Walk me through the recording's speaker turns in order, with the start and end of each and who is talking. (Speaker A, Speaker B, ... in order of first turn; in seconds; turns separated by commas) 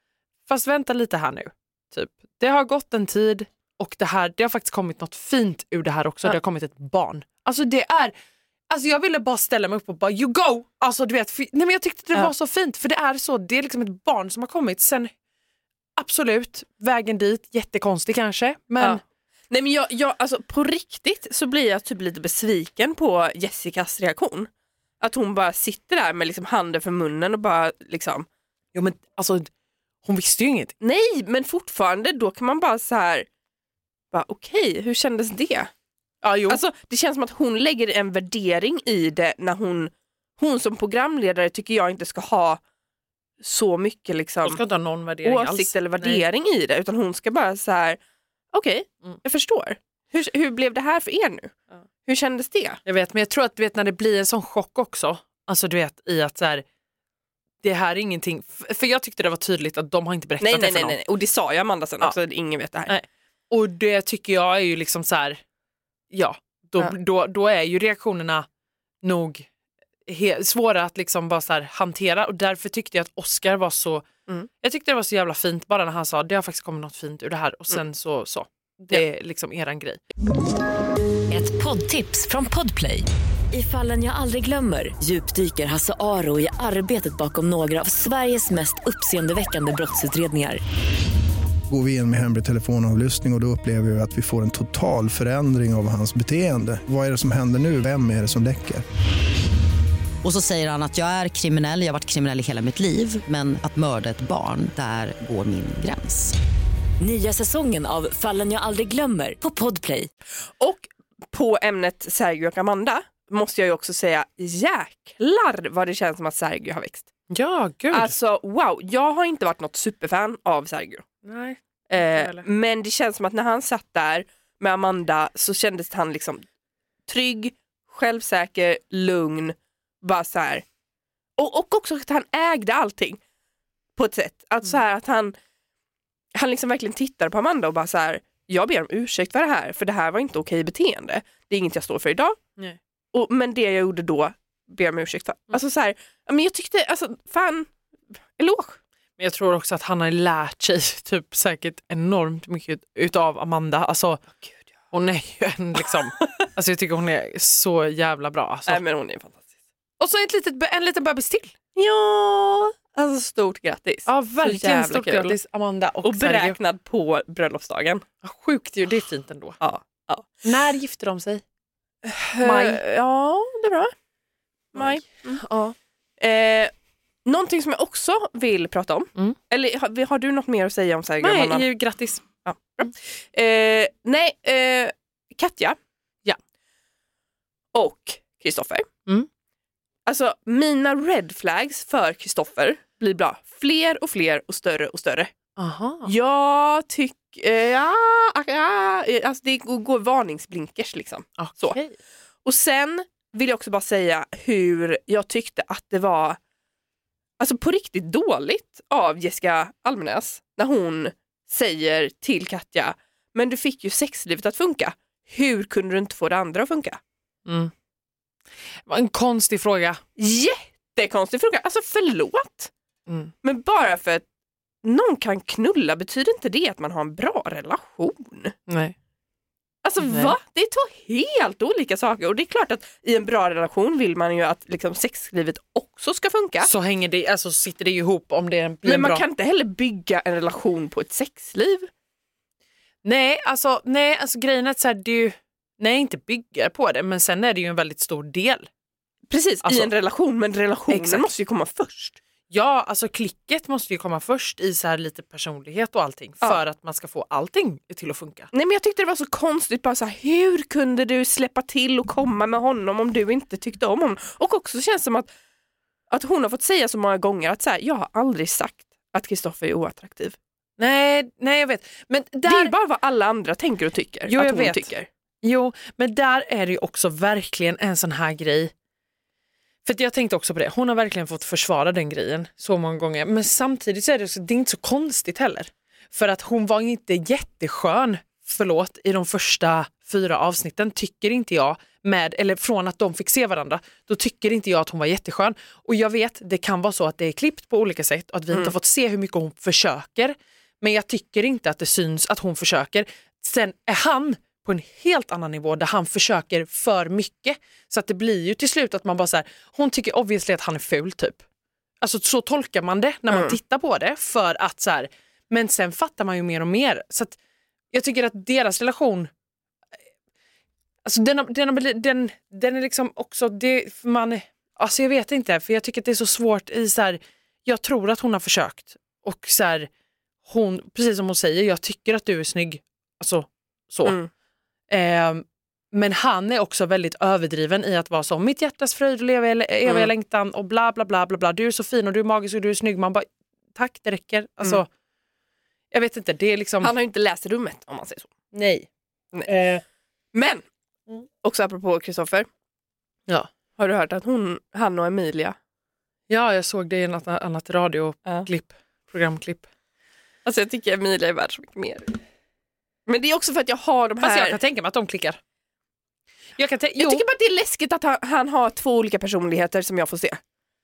Speaker A: 0.5-8.1, Speaker A: 8.7-15.1, Speaker A: 16.0-19.0, Speaker B: 18.8-24.5, Speaker B: 25.0-28.3, Speaker A: 28.7-29.5, Speaker A: 30.0-30.7, Speaker B: 30.8-33.2, Speaker B: 34.1-35.7, Speaker A: 36.2-36.6, Speaker B: 36.5-42.6, Speaker B: 43.4-44.6, Speaker A: 44.4-46.2, Speaker B: 45.2-48.0, Speaker B: 48.5-52.8, Speaker A: 52.8-56.6, Speaker A: 57.6-61.0, Speaker B: 60.4-62.9, Speaker A: 62.9-65.4, Speaker A: 66.1-68.5, Speaker A: 69.0-69.5, Speaker A: 70.0-74.0, Speaker A: 74.6-80.0, Speaker C: 81.3-90.6, Speaker D: 91.7-98.8, Speaker E: 100.2-106.3, Speaker C: 107.0-110.1, Speaker B: 110.6-117.1, Speaker A: 117.3-118.1, Speaker B: 117.9-121.0, Speaker A: 121.2-122.5, Speaker B: 121.9-126.4, Speaker B: 127.1-130.6, Speaker B: 131.4-133.2, Speaker B: 133.9-135.3, Speaker B: 136.3-142.4, Speaker B: 143.1-147.7, Speaker B: 148.4-148.8, Speaker A: 149.2-154.2, Speaker A: 154.9-158.8, Speaker B: 158.7-159.4, Speaker A: 160.0-161.5, Speaker B: 161.7-165.4, Speaker A: 164.1-166.6, Speaker B: 166.0-168.0, Speaker A: 168.2-169.6, Speaker B: 169.6-170.3, Speaker A: 170.4-171.4, Speaker B: 172.0-173.9, Speaker A: 172.4-172.8, Speaker B: 174.7-175.4, Speaker A: 174.8-175.8, Speaker B: 176.2-176.7, Speaker B: 177.2-181.7, Speaker A: 181.2-182.2, Speaker B: 182.4-185.8, Speaker B: 187.7-188.9, Speaker B: 190.1-195.3, Speaker A: 195.6-196.1, Speaker B: 196.0-201.8, Speaker A: 201.4-201.9, Speaker B: 202.4-206.4, Speaker B: 207.4-217.0, Speaker A: 217.4-217.7, Speaker A: 218.8-220.0, Speaker B: 220.2-222.7, Speaker B: 223.4-224.2, Speaker B: 224.8-228.5, Speaker A: 228.7-228.9, Speaker B: 229.8-236.7, Speaker A: 230.0-230.3, Speaker A: 236.6-239.2, Speaker B: 238.8-241.9, Speaker A: 243.0-248.7, Speaker B: 249.3-252.2, Speaker A: 249.6-249.9, Speaker A: 250.9-251.2, Speaker A: 252.5-258.5, Speaker B: 258.5-265.3, Speaker B: 266.1-270.4, Speaker A: 270.8-272.7, Speaker B: 272.4-275.1, Speaker A: 274.3-274.9, Speaker A: 275.4-278.7, Speaker A: 279.8-311.4, Speaker A: 312.0-317.4, Speaker B: 313.3-313.6, Speaker A: 317.9-319.3, Speaker A: 321.0-329.9, Speaker A: 330.4-334.2, Speaker B: 334.0-334.3, Speaker A: 334.9-344.9, Speaker A: 345.9-346.9, Speaker B: 346.8-348.3, Speaker A: 348.5-348.9, Speaker A: 349.4-349.8, Speaker B: 350.3-350.6, Speaker B: 351.4-352.5, Speaker B: 353.8-355.6, Speaker A: 356.3-359.7, Speaker B: 360.4-362.2, Speaker B: 363.1-364.6, Speaker A: 364.2-365.4, Speaker A: 366.6-367.2, Speaker B: 367.0-370.4